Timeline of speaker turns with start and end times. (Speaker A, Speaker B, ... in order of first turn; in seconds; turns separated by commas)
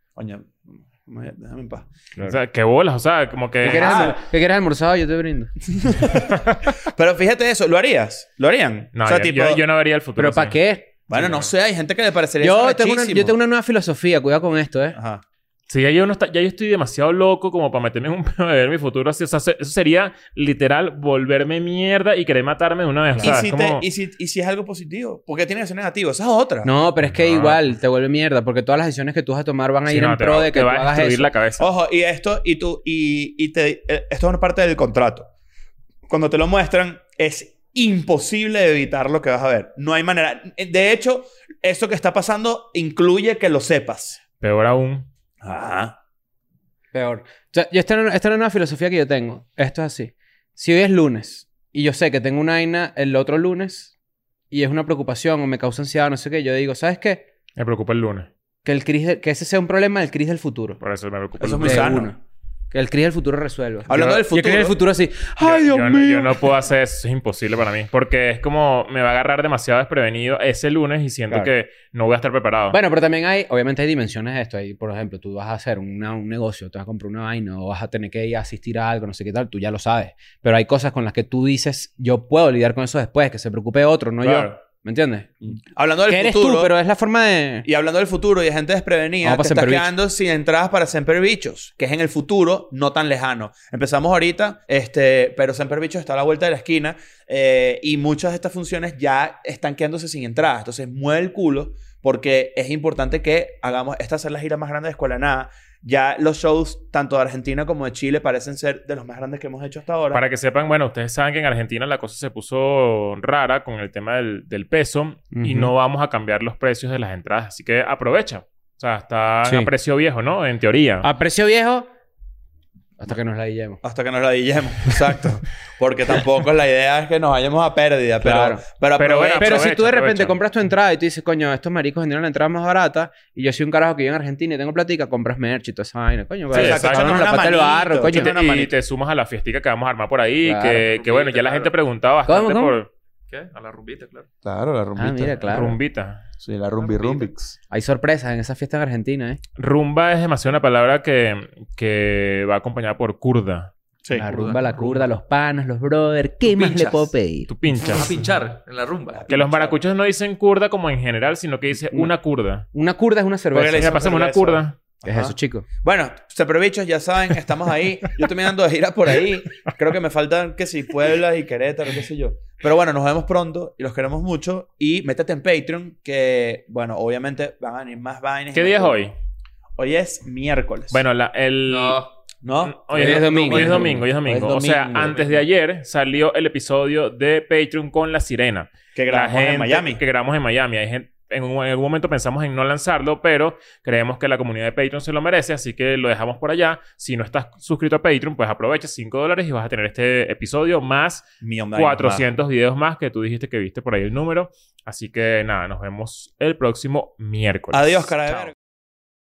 Speaker A: 0.2-1.9, Speaker B: 2.2-4.1, Speaker A: 3.6-4.2, Speaker C: 3.6-5.7, Speaker A: 5.7-9.6, Speaker B: 8.9-10.6, Speaker C: 10.2-10.9, Speaker A: 11.1-13.3, Speaker B: 11.1-11.5, Speaker C: 12.4-15.0, Speaker A: 14.9-15.2, Speaker B: 15.7-23.9, Speaker C: 23.1-23.4, Speaker A: 23.2-26.7, Speaker C: 26.6-31.3, Speaker B: 27.0-27.6, Speaker B: 29.9-31.6, Speaker A: 31.6-35.3, Speaker A: 36.1-44.2, Speaker B: 44.4-45.1, Speaker A: 45.4-46.0, Speaker C: 46.9-53.9, Speaker C: 54.5-57.3, Speaker B: 57.6-58.3, Speaker C: 58.6-60.8, Speaker B: 60.8-62.0, Speaker A: 61.4-62.1, Speaker C: 61.6-62.2, Speaker C: 62.7-66.5, Speaker A: 63.9-64.8, Speaker B: 63.9-64.2, Speaker B: 65.4-72.8, Speaker C: 72.7-85.3, Speaker A: 84.2-84.5, Speaker A: 85.4-86.7, Speaker C: 86.1-87.7, Speaker A: 87.6-110.2, Speaker C: 89.2-89.9, Speaker B: 110.1-121.1, Speaker C: 115.3-115.7, Speaker C: 119.4-119.7, Speaker C: 121.0-121.9, Speaker C: 123.0-123.8, Speaker A: 123.8-129.6, Speaker C: 128.2-128.6, Speaker B: 129.0-130.4, Speaker C: 129.4-138.4, Speaker B: 136.5-137.4, Speaker A: 136.5-138.7, Speaker B: 138.1-142.9, Speaker C: 140.4-140.9, Speaker D: 140.9-141.7, Speaker C: 142.2-142.8, Speaker D: 143.3-144.3, Speaker A: 144.4-145.6, Speaker C: 144.9-145.8, Speaker B: 145.4-146.2, Speaker A: 146.4-147.5, Speaker D: 146.8-147.3, Speaker C: 147.7-149.4, Speaker B: 149.6-153.7, Speaker A: 154.0-154.3, Speaker C: 154.1-157.5, Speaker D: 154.2-155.0, Speaker D: 156.4-157.1, Speaker B: 157.5-158.2, Speaker D: 157.7-159.3, Speaker A: 159.1-159.8, Speaker B: 159.3-162.7, Speaker C: 162.7-164.0, Speaker A: 163.5-179.0, Speaker B: 163.7-164.8, Speaker C: 165.0-165.7, Speaker B: 178.5-179.1, Speaker A: 179.8-181.0, Speaker B: 180.9-182.0, Speaker D: 181.7-182.1, Speaker A: 182.4-185.3, Speaker B: 182.6-208.5, Speaker C: 182.9-184.0, Speaker A: 188.9-190.0, Speaker A: 201.4-202.2, Speaker A: 207.7-208.5